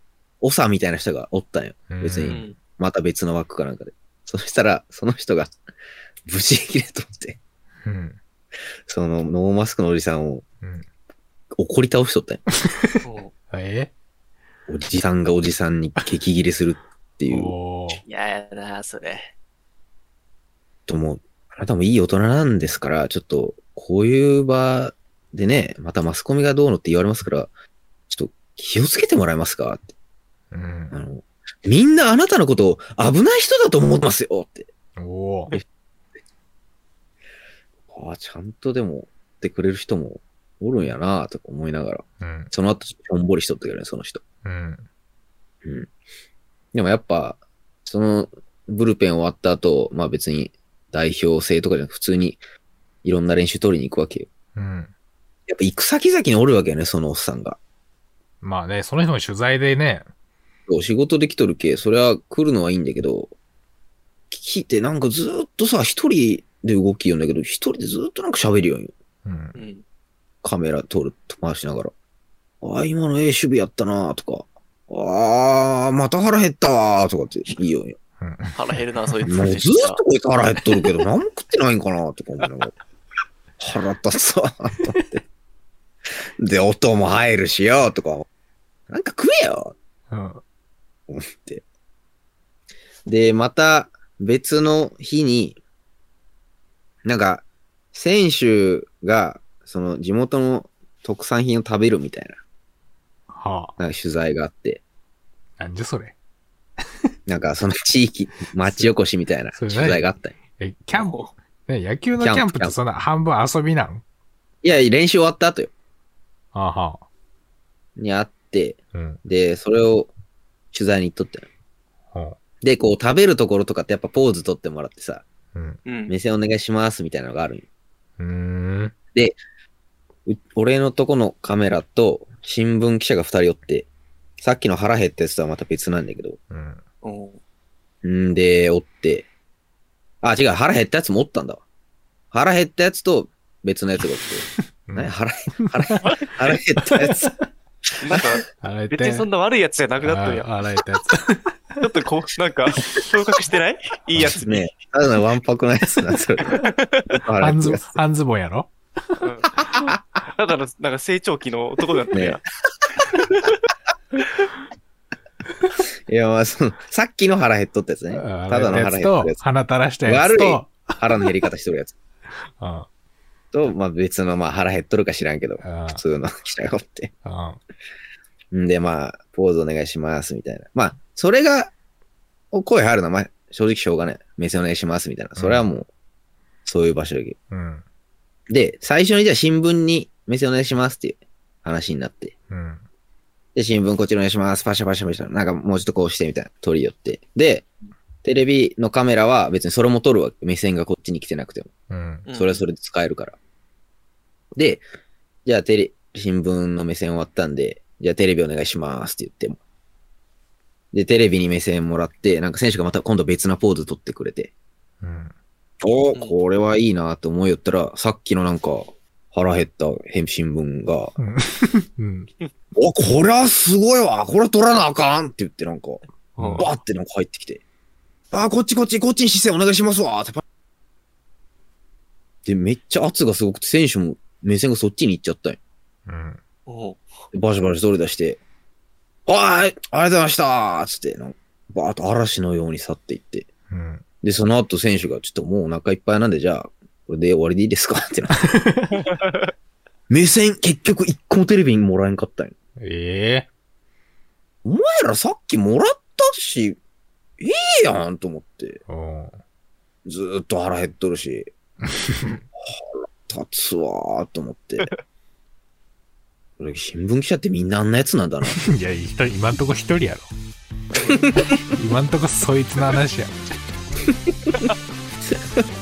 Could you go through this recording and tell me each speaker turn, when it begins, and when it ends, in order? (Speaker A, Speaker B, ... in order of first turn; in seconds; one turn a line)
Speaker A: 0.4-5.5
Speaker B: 1.9-2.4
Speaker C: 2.2-2.6
Speaker A: 6.2-7.4
Speaker B: 7.8-8.2
Speaker A: 8.9-10.4
Speaker A: 11.6-12.4
Speaker C: 13.0-13.3
Speaker B: 13.5-13.9
Speaker A: 14.7-17.6
Speaker B: 17.3-18.0
Speaker C: 18.0-19.3
Speaker A: 20.9-27.5
Speaker A: 28.1-29.9
Speaker B: 30.5-30.9
Speaker A: 30.9-34.7
Speaker B: 35.0-35.5
Speaker A: 37.9-44.2
Speaker B: 42.2-42.5
Speaker B: 44.4-44.9
Speaker A: 45.6-45.9
Speaker A: 46.7-52.4
Speaker A: 53.0-54.3
Speaker B: 54.5-54.9
Speaker A: 55.5-57.6
Speaker B: 58.4-60.1
Speaker A: 60.7-63.3
Speaker A: 64.3-68.9
Speaker B: 69.2-69.6
Speaker C: 69.5-69.8
Speaker A: 70.4-71.9
Speaker A: 72.6-78.0
Speaker B: 78.2-78.6
Speaker C: 78.5-80.0
Speaker A: 79.3-82.7
Speaker A: 83.6-85.2
Speaker A: 86.4-88.3
Speaker A: 88.9-89.8
Speaker B: 90.1-90.4
Speaker A: 91.1-91.6
Speaker A: 93.1-95.6
Speaker A: 97.0-102.4
Speaker B: 103.3-103.8
Speaker A: 103.8-104.8
Speaker B: 105.6-106.2
Speaker A: 107.3-110.3
Speaker B: 108.6-108.9
Speaker B: 109.5-110.0
Speaker B: 110.6-114.0
Speaker C: 110.9-111.2
Speaker A: 112.2-112.8
Speaker A: 114.6-115.7
Speaker B: 116.5-117.0
Speaker A: 118.0-120.1
Speaker B: 118.9-119.2
Speaker A: 120.7-121.5
Speaker B: 122.1-122.4
Speaker A: 122.6-125.2
Speaker C: 125.8-126.1
Speaker A: 126.1-127.7
Speaker B: 128.2-128.9
Speaker A: 130.2-133.9
Speaker A: 134.4-136.4
Speaker B: 136.5-136.8
Speaker C: 137.0-137.4
Speaker A: 138.0-139.3
Speaker A: 140.2-141.6
Speaker A: 142.3-147.3
Speaker B: 144.5-146.0
Speaker B: 146.8-147.5
Speaker C: 148.0-150.5
Speaker B: 148.6-149.3
Speaker B: 150.0-151.8
Speaker C: 151.8-154.7
Speaker A: 154.2-157.9
Speaker C: 156.5-157.1
Speaker B: 157.4-159.2
Speaker C: 159.2-162.4
Speaker A: 162.1-162.4
Speaker C: 163.3-164.2
Speaker A: 166.1-169.4
Speaker B: 168.1-171.0
Speaker A: 170.0-171.9
Speaker B: 172.6-172.9
Speaker A: 173.5-177.1
Speaker B: 175.6-176.0
Speaker B: 177.2-177.6
Speaker A: 178.5-181.7
Speaker A: 182.5-185.9
Speaker B: 185.4-185.7
Speaker A: 186.6-187.4
Speaker B: 187.5-187.8
Speaker A: 188.5-192.3
Speaker B: 192.5-192.8
Speaker A: 193.5-197.7
Speaker A: 198.2-201.7
Speaker B: 201.9-202.3
Speaker C: 202.3-202.6
Speaker A: 202.3-203.4
Speaker A: 204.6-204.8
Speaker A: 205.4-209.6
Speaker A: 210.9-214.5
Speaker B: 215.0-215.3
Speaker A: 215.8-221.2
Speaker B: 221.2-222.3
Speaker A: 222.8-227.6
Speaker B: 226.4-226.7
Speaker A: 228.3-230.4
Speaker A: 232.4-235.6
Speaker B: 236.1-236.4
Speaker C: 236.7-237.0
Speaker A: 237.3-238.4
Speaker A: 239.3-243.5
Speaker B: 243.7-244.0
Speaker A: 244.2-248.4
Speaker B: 248.5-249.0
Speaker C: 248.9-249.5
Speaker A: 250.1-252.5
Speaker B: 252.8-253.5
Speaker A: 254.6-256.8
Speaker A: 257.4-258.8
Speaker B: 258.9-259.4
Speaker A: 260.1-261.5
Speaker B: 261.8-262.4
Speaker A: 262.6-264.9
Speaker A: 266.6-268.6
Speaker B: 268.5-270.3
Speaker C: 270.9-271.2
Speaker B: 271.7-273.3